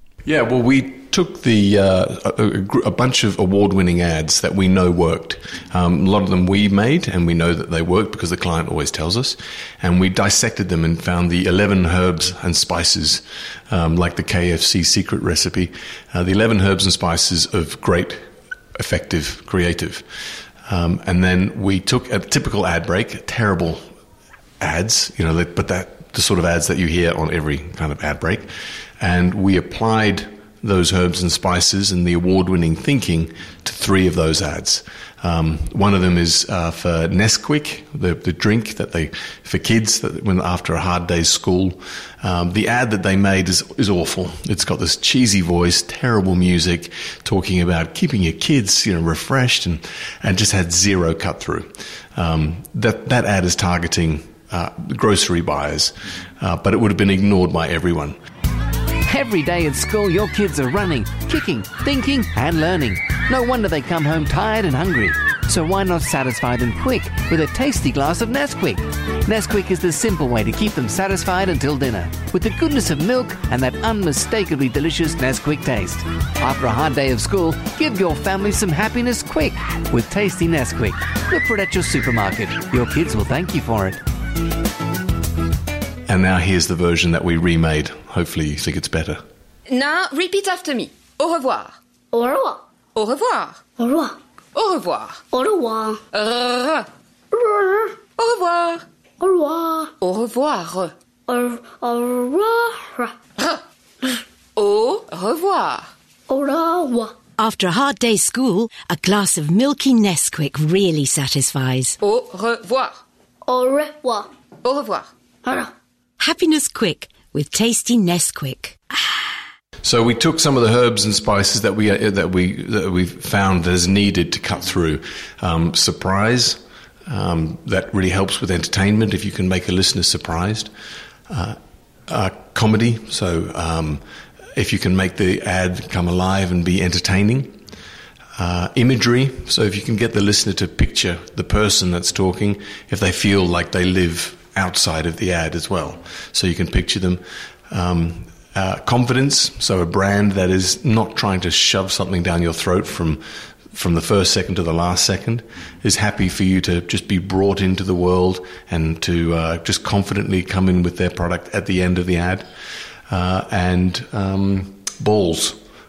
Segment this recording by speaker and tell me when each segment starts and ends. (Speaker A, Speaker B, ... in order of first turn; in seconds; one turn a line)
Speaker A: 0.2-20.1
Speaker A: 20.6-23.9
Speaker A: 24.6-58.1
Speaker B: 59.0-84.0
Speaker A: 86.1-89.2
Speaker C: 89.7-91.7
Speaker D: 92.1-92.6
Speaker C: 93.0-93.6
Speaker D: 93.8-94.1
Speaker C: 94.5-95.2
Speaker D: 95.3-96.0
Speaker C: 96.1-96.9
Speaker D: 97.3-97.9
Speaker C: 98.2-98.8
Speaker D: 99.2-99.9
Speaker C: 100.0-100.9
Speaker D: 101.3-103.1
Speaker C: 104.5-105.9
Speaker D: 106.3-107.1
Speaker E: 107.4-112.0
Speaker C: 112.0-113.0
Speaker D: 113.5-114.3
Speaker C: 114.6-115.1
Speaker D: 115.4-115.7
Speaker E: 116.2-118.8
Speaker A: 119.8-130.7
Speaker A: 131.3-137.6
Speaker A: 138.4-162.5
Speaker A: 163.1-165.6